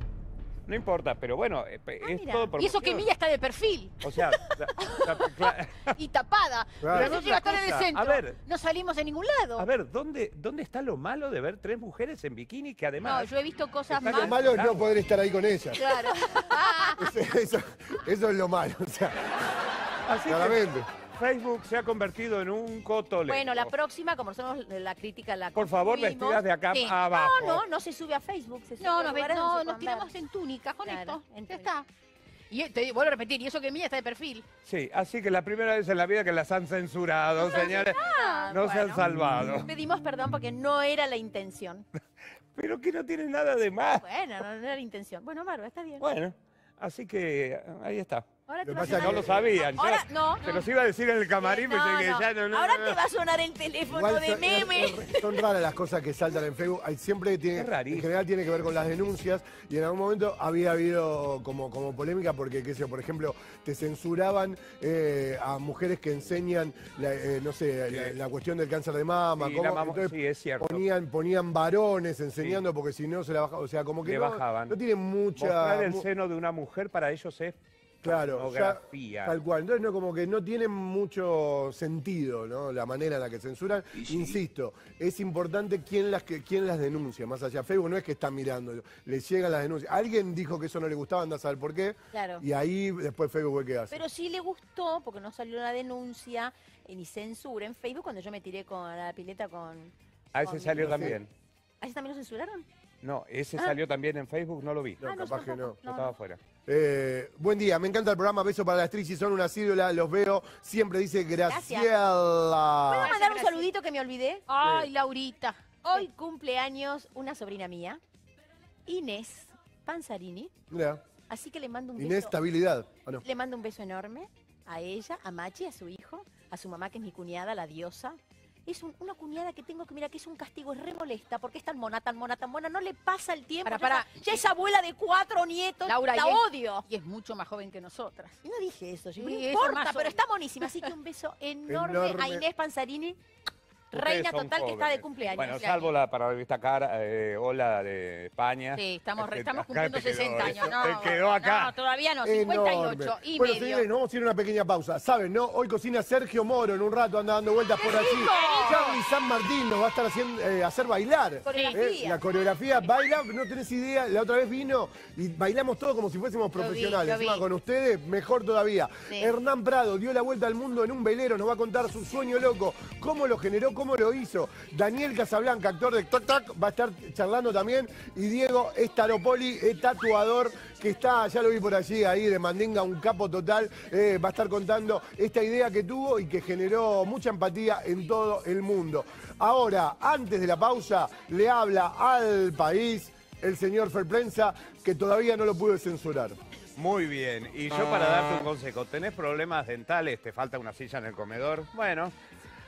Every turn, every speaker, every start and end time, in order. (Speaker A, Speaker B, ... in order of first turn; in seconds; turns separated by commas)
Speaker A: 0.7-3.1, Speaker B: 2.0-2.5, Speaker C: 2.5-9.7, Speaker A: 4.0-6.0, Speaker D: 6.8-7.2, Speaker A: 6.8-8.4, Speaker A: 9.6-13.3, Speaker C: 13.0-14.5, Speaker A: 13.9-15.0, Speaker D: 14.1-15.8, Speaker B: 15.7-16.9, Speaker C: 15.8-17.0, Speaker D: 17.0-19.4, Speaker A: 20.1-23.7, Speaker D: 20.2-20.9, Speaker B: 23.3-30.1, Speaker A: 25.5-27.6, Speaker C: 28.8-31.9, Speaker B: 30.8-31.7, Speaker C: 32.5-34.4, Speaker A: 34.6-39.7, Speaker B: 37.4-41.8, Speaker C: 37.4-38.9, Speaker A: 42.5-44.0, Speaker B: 43.9-46.1, Speaker A: 46.0-53.0, Speaker B: 48.5-50.6, Speaker D: 48.6-49.4, Speaker B: 51.4-55.4, Speaker D: 53.9-76.0, Speaker A: 57.5-58.1, Speaker A: 67.9-68.2, Speaker A: 69.4-70.9, Speaker A: 72.4-72.7, Speaker A: 74.0-74.8, Speaker A: 75.3-79.4, Speaker D: 78.0-94.0, Speaker A: 83.9-84.4, Speaker B: 92.1-92.4, Speaker B: 93.9-101.2, Speaker A: 100.3-101.3, Speaker D: 100.8-101.1, Speaker B: 101.8-102.7, Speaker A: 103.0-105.0, Speaker D: 105.0-105.8, Speaker B: 105.0-106.1, Speaker A: 105.8-106.4, Speaker D: 106.7-113.1, Speaker B: 111.4-111.9, Speaker B: 112.9-114.4, Speaker C: 113.0-113.7, Speaker C: 114.5-116.0, Speaker D: 114.6-114.9, Speaker B: 115.8-118.0, Speaker B: 118.8-120.5, Speaker D: 120.7-121.0, Speaker B: 121.3-122.4, Speaker D: 122.0-123.2, Speaker B: 123.2-136.8, Speaker C: 133.6-134.4, Speaker C: 135.8-138.4, Speaker B: 138.4-143.2, Speaker C: 139.2-140.2, Speaker D: 141.7-142.4, Speaker B: 143.9-145.7, Speaker A: 143.9-151.8, Speaker C: 145.2-145.9, Speaker C: 148.7-153.9, Speaker D: 152.2-196.4, Speaker B: 157.8-158.8, Speaker C: 157.9-159.0, Speaker B: 161.4-162.2, Speaker C: 166.6-167.4, Speaker A: 196.8-202.1